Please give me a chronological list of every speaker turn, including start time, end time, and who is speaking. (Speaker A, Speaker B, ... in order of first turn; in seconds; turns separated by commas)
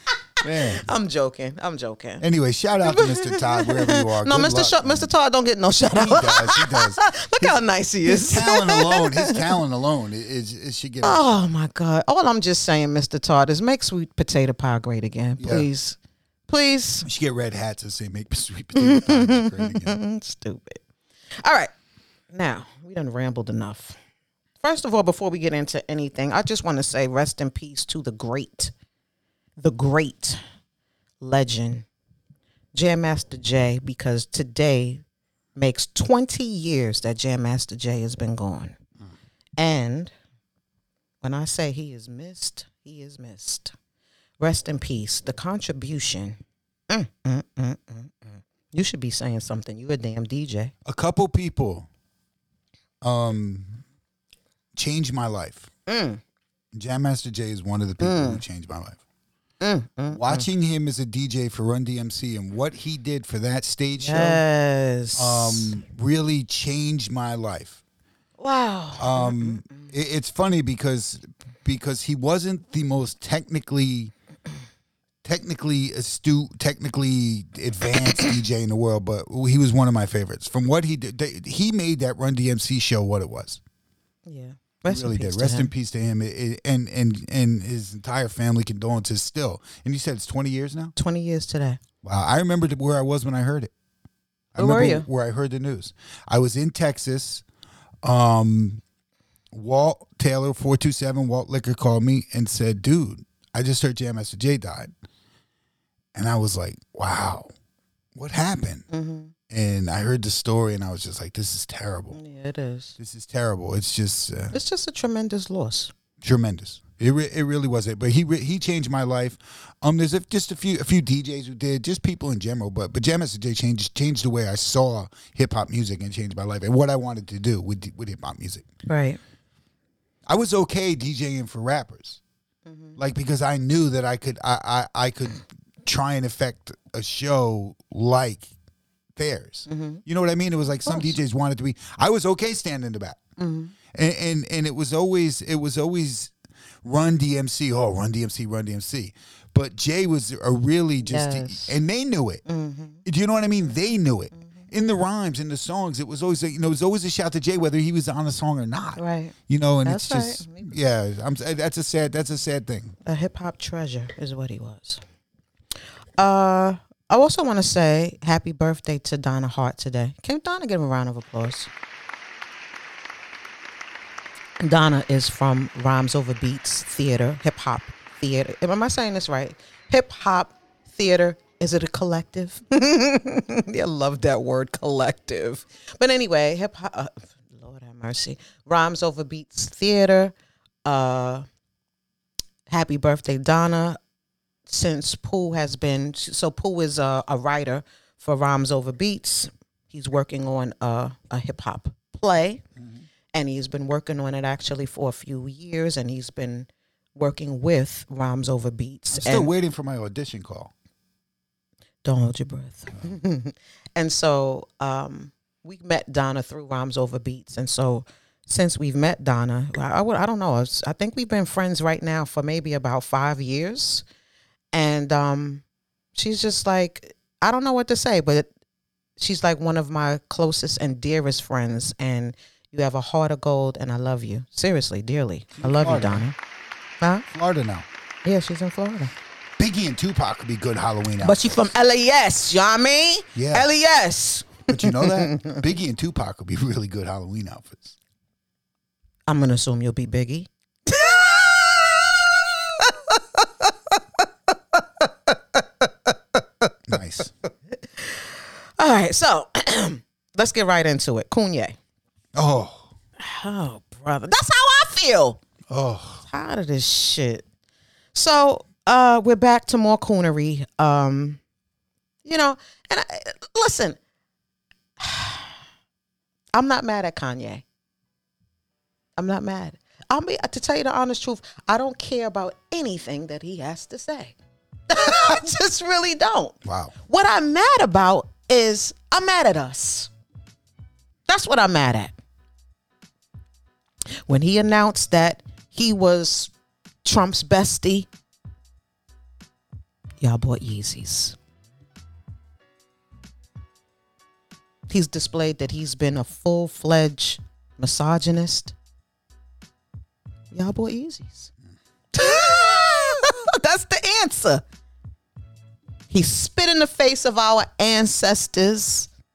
Speaker A: 0.4-0.8, Speaker B: 0.6-2.2, Speaker A: 2.2-5.1, Speaker B: 2.8-9.5, Speaker A: 5.9-11.2, Speaker B: 11.0-16.0, Speaker A: 15.4-15.7, Speaker B: 16.5-17.1, Speaker A: 17.0-20.0, Speaker B: 18.8-20.8, Speaker B: 21.4-21.7, Speaker B: 22.3-24.0, Speaker B: 24.6-28.7, Speaker B: 29.6-30.4, Speaker B: 31.2-31.9, Speaker B: 32.8-35.0, Speaker B: 35.5-38.8, Speaker B: 39.6-40.1, Speaker B: 41.2-43.7, Speaker B: 44.4-50.7, Speaker A: 50.8-51.9, Speaker A: 53.0-53.8, Speaker A: 54.8-55.7, Speaker B: 55.9-56.2, Speaker A: 56.7-59.0, Speaker B: 58.0-58.4, Speaker B: 59.6-60.5, Speaker A: 60.1-64.4, Speaker B: 64.0-65.7, Speaker A: 65.1-67.8, Speaker B: 68.4-69.9, Speaker A: 69.0-74.1, Speaker A: 75.2-83.6, Speaker B: 84.2-85.7, Speaker A: 84.9-90.9, Speaker B: 91.0-91.8, Speaker A: 92.0-93.7, Speaker A: 94.5-97.4, Speaker B: 94.5-95.1, Speaker A: 98.0-98.8, Speaker A: 99.5-104.9, Speaker A: 106.1-107.5, Speaker A: 108.1-108.9, Speaker B: 108.9-109.3, Speaker A: 109.5-112.2, Speaker B: 112.1-112.9, Speaker A: 113.0-114.6, Speaker B: 114.5-115.9, Speaker A: 116.2-128.7, Speaker B: 128.9-129.2, Speaker A: 130.3-132.2, Speaker B: 132.7-133.0, Speaker A: 133.0-138.5, Speaker A: 139.2-143.2, Speaker B: 139.7-140.0, Speaker B: 140.9-141.1, Speaker B: 143.4-143.7, Speaker A: 143.9-146.3, Speaker A: 146.8-152.4, Speaker B: 151.0-151.8, Speaker B: 152.4-153.0, Speaker A: 153.0-162.9, Speaker B: 158.9-160.8, Speaker B: 163.0-165.0, Speaker B: 166.2-171.7, Speaker B: 174.6-190.3, Speaker B: 190.8-191.4, Speaker B: 192.7-194.0, Speaker B: 194.7-202.6, Speaker B: 203.3-209.5, Speaker A: 209.1-210.7, Speaker B: 212.0-224.0, Speaker B: 224.7-225.6, Speaker B: 226.1-228.5, Speaker B: 229.2-236.3, Speaker A: 235.6-236.2, Speaker A: 237.3-237.9, Speaker B: 238.2-239.1, Speaker A: 239.6-241.4, Speaker B: 241.2-245.6, Speaker A: 243.3-243.7, Speaker A: 244.7-247.9, Speaker B: 249.3-254.2, Speaker B: 254.7-256.1, Speaker A: 256.9-257.3, Speaker B: 258.0-258.3, Speaker B: 258.8-261.8, Speaker A: 262.3-262.9, Speaker B: 263.2-265.4, Speaker A: 265.7-266.2, Speaker B: 266.3-267.4, Speaker B: 268.1-271.4, Speaker B: 272.2-274.0, Speaker B: 275.0-275.5, Speaker B: 276.5-277.6, Speaker B: 279.2-284.3, Speaker B: 284.9-290.1, Speaker A: 286.6-286.9, Speaker B: 291.3-292.1, Speaker B: 294.3-296.5, Speaker B: 297.0-298.1, Speaker B: 300.2-301.3, Speaker B: 304.9-308.7, Speaker B: 310.5-311.5, Speaker B: 312.1-314.6, Speaker B: 316.1-319.1